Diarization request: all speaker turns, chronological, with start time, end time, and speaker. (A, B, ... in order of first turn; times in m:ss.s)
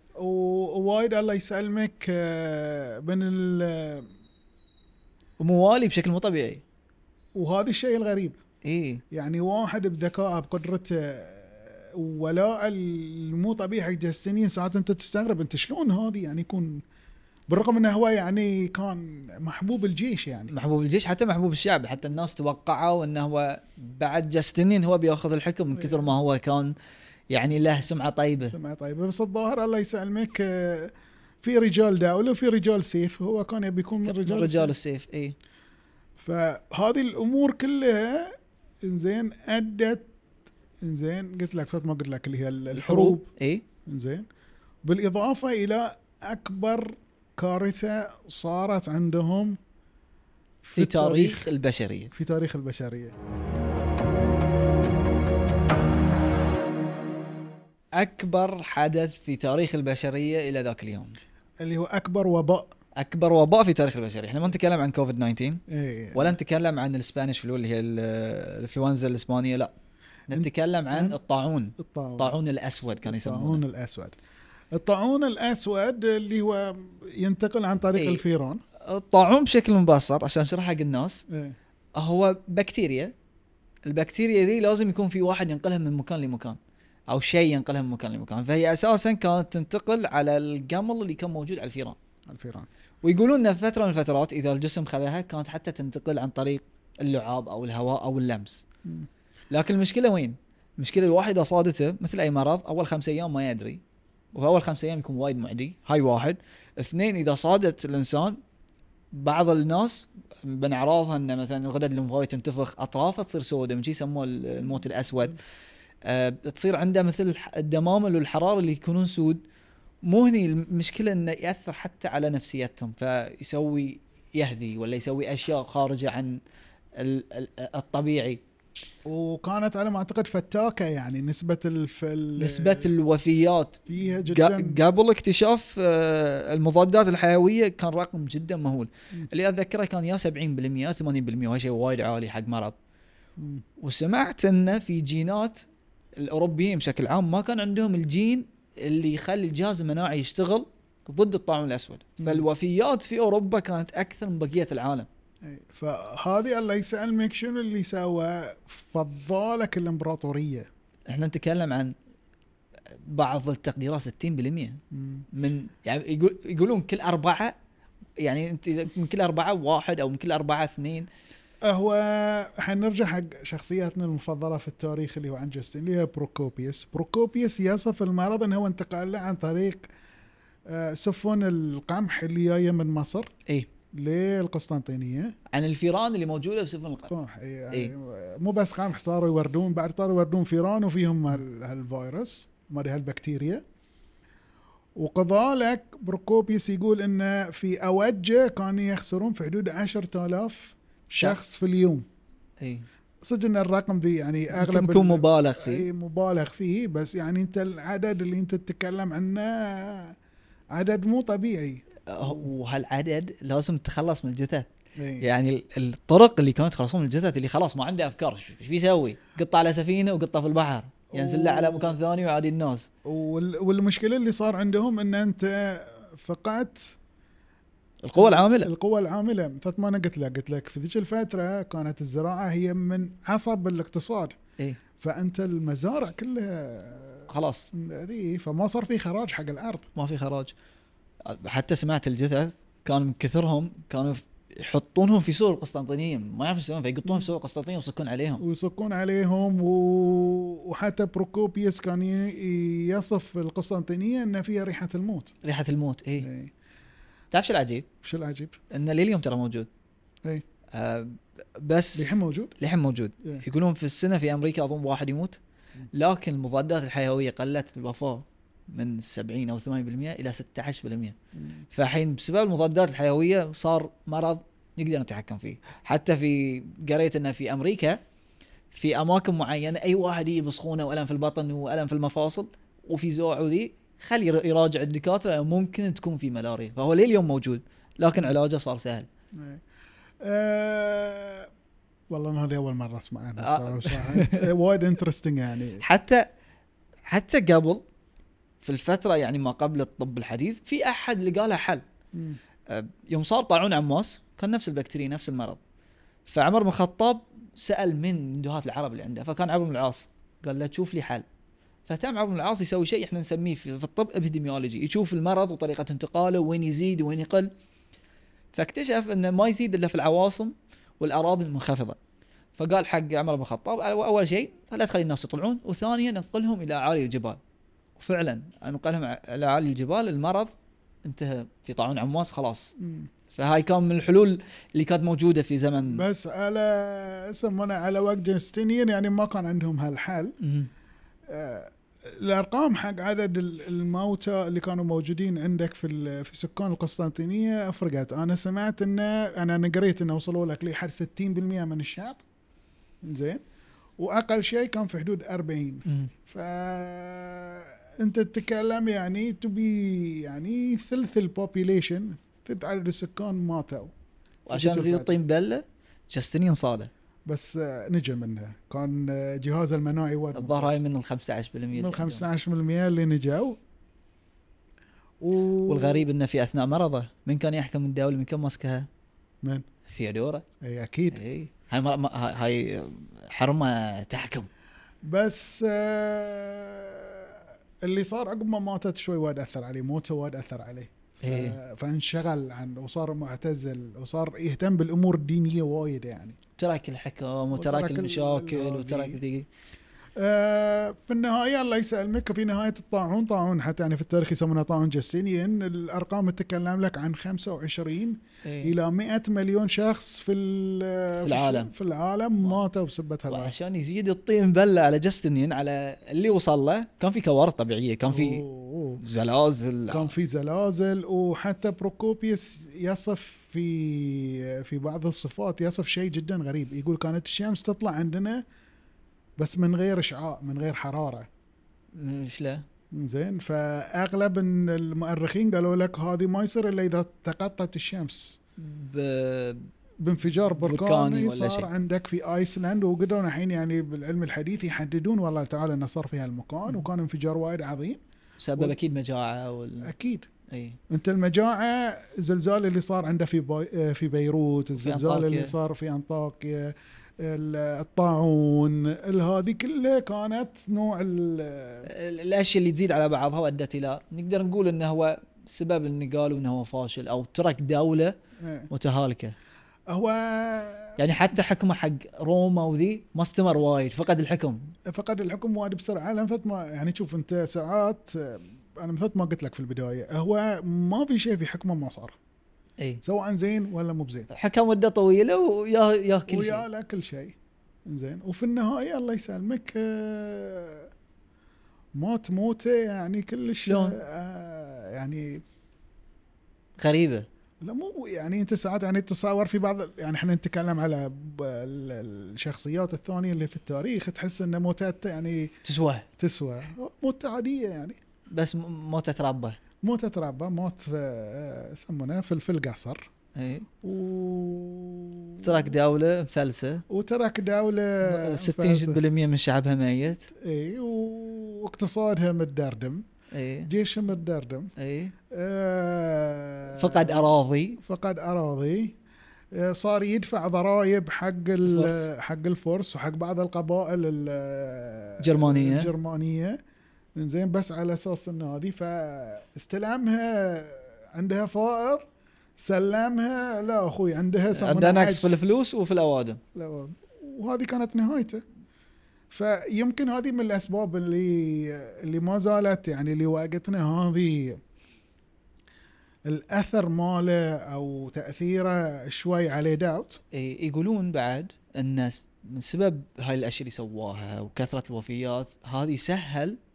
0:00.2-0:04.1 A
0:05.4-0:06.6 B
0:07.4-0:08.4 A
0:08.6-0:09.0 B
0:09.1-0:16.8 A
0:17.5-0:20.5 A
0:20.5-0:26.7 B
0:25.7-0:26.1 A
0:27.3-0:28.6 B
0:28.4-0:34.7 A
0:34.0-0:35.4 B
0:36.2-0:40.1 A
0:40.8-0:43.3 A
0:42.7-0:43.6 B
0:43.9-0:44.3 A
0:44.8-0:49.6 A
0:50.6-0:51.5 A
0:50.7-0:52.1 B
0:52.1-0:53.1 A
0:58.0-1:01.2 B
1:01.6-1:02.8 A
1:03.0-1:05.6 B
1:05.7-1:06.4 A
1:06.1-1:09.7 B
1:10.3-1:13.6 B
1:10.3-1:11.2 A
1:11.8-1:12.4 A
1:13.0-1:14.2 A
1:14.7-1:18.6 A
1:18.0-1:18.2 B
1:18.8-1:21.2 B
1:21.3-1:21.6 A
1:22.0-1:23.1 B
1:23.9-1:32.0 B
1:32.3-1:32.7 A
1:33.0-1:38.6 B
1:39.5-1:43.8 B
1:44.4-1:48.4 B
1:49.1-1:55.4 B
1:56.0-1:59.4 B
2:00.0-2:06.4 B
2:07.0-2:08.4 B
2:09.1-2:12.9 A
2:12.4-2:22.8 B
2:13.9-2:14.8 A
2:23.4-2:23.6 A
2:23.8-2:25.7 B
2:26.2-2:35.1 B
2:32.2-2:32.5 A
2:35.4-2:40.7 A
2:41.1-2:41.9 B
2:43.0-2:44.8 B
2:44.9-2:45.3 A
2:45.3-2:47.6 B
2:48.2-2:51.1 B
2:51.6-2:59.9 A
3:00.7-3:03.3 A
3:03.9-3:05.4 A
3:05.5-3:07.1 B
3:07.1-3:13.6 A
3:15.0-3:22.1 A
3:22.6-3:22.9 B
3:23.2-3:30.2 A
3:24.5-3:25.9 B
3:30.7-3:32.5 A
3:32.1-3:34.7 B
3:35.0-3:35.3 A
3:35.2-3:42.9 B
3:41.1-3:42.0 A
3:43.0-3:47.0 A
3:48.0-3:48.7 B
3:48.2-3:54.4 A
3:55.0-3:59.9 A
3:57.3-3:57.7 B
4:00.0-4:00.5 B
4:01.2-4:08.4 B
4:08.4-4:15.3 A
4:15.4-4:16.3 B
4:16.2-4:16.5 A
4:17.3-4:17.9 B
4:18.0-4:18.6 A
4:18.7-4:19.7 B
4:20.7-4:25.4 B
4:22.0-4:22.5 A
4:25.9-4:31.2 B
4:31.4-4:31.6 A
4:31.7-4:38.0 B
4:38.7-4:49.1 B
4:49.4-4:49.6 A
4:50.2-4:51.5 A
4:52.1-4:55.8 A
4:53.4-4:54.5 B
4:55.8-4:56.3 B
4:57.1-4:57.8 B
4:58.6-5:01.8 B
5:02.7-5:05.6 B
5:06.3-5:11.2 B
5:11.9-5:17.5 B
5:18.5-5:22.0 B
5:22.6-5:27.4 B
5:28.0-5:30.5 B
5:31.0-5:32.8 B
5:32.8-5:33.1 A
5:33.3-5:36.0 B
5:35.9-5:40.4 A
5:40.4-5:40.7 B
5:41.3-5:52.2 A
5:53.0-5:53.4 A
5:54.0-6:03.9 A
6:04.5-6:06.9 B
6:04.5-6:05.1 A
6:07.3-6:10.8 A
6:10.3-6:12.3 B
6:11.7-6:13.6 A
6:15.2-6:16.1 A
6:15.7-6:18.9 B
6:19.9-6:20.4 B
6:20.6-6:21.2 A
6:21.1-6:24.5 B
6:25.0-6:36.4 A
6:31.2-6:31.6 B
6:36.6-6:39.5 B
6:37.5-6:39.2 A
6:40.2-6:53.5 A
6:48.4-6:48.7 B
6:51.2-6:51.7 B
6:53.3-6:58.4 B
6:58.1-6:59.0 A
6:59.0-7:00.1 B
6:59.9-7:08.4 A
7:09.4-7:11.3 A
7:11.9-7:12.6 B
7:12.9-7:18.4 A
7:18.6-7:19.7 B
7:20.0-7:28.0 A
7:20.6-7:21.7 B
7:28.4-7:29.9 B
7:29.8-7:30.3 A
7:30.5-7:30.8 B
7:30.9-7:41.9 A
7:34.8-7:35.5 B
7:41.8-7:48.2 B
7:48.4-7:48.7 A
7:48.7-7:49.4 B
7:49.9-7:51.0 A
7:51.0-7:54.7 B
7:54.9-8:02.2 A
8:03.0-8:04.3 A
8:04.3-8:06.6 B
8:06.3-8:07.4 A
8:07.9-8:10.9 A
8:12.0-8:15.4 A
8:13.6-8:14.0 B
8:16.8-8:17.3 B
8:17.6-8:25.5 A
8:25.6-8:26.1 B
8:26.2-8:28.0 A
8:28.3-8:29.6 B
8:29.8-8:33.1 A
8:33.4-8:33.7 B
8:33.8-8:35.8 A
8:35.4-8:36.8 B
8:36.9-8:39.0 A
8:38.0-8:40.3 B
8:40.3-8:43.0 A
8:43.3-8:43.7 B
8:43.7-8:44.7 A
8:44.8-8:45.1 B
8:45.3-8:49.0 A
8:46.7-8:47.8 B
8:49.5-8:56.6 A
8:51.6-8:52.1 B
8:55.2-8:55.9 B
8:57.2-9:02.1 A
9:02.6-9:05.4 A
9:04.5-9:06.4 B
9:06.6-9:08.4 A
9:09.3-9:14.6 A
9:16.3-9:20.2 A
9:20.3-9:26.6 B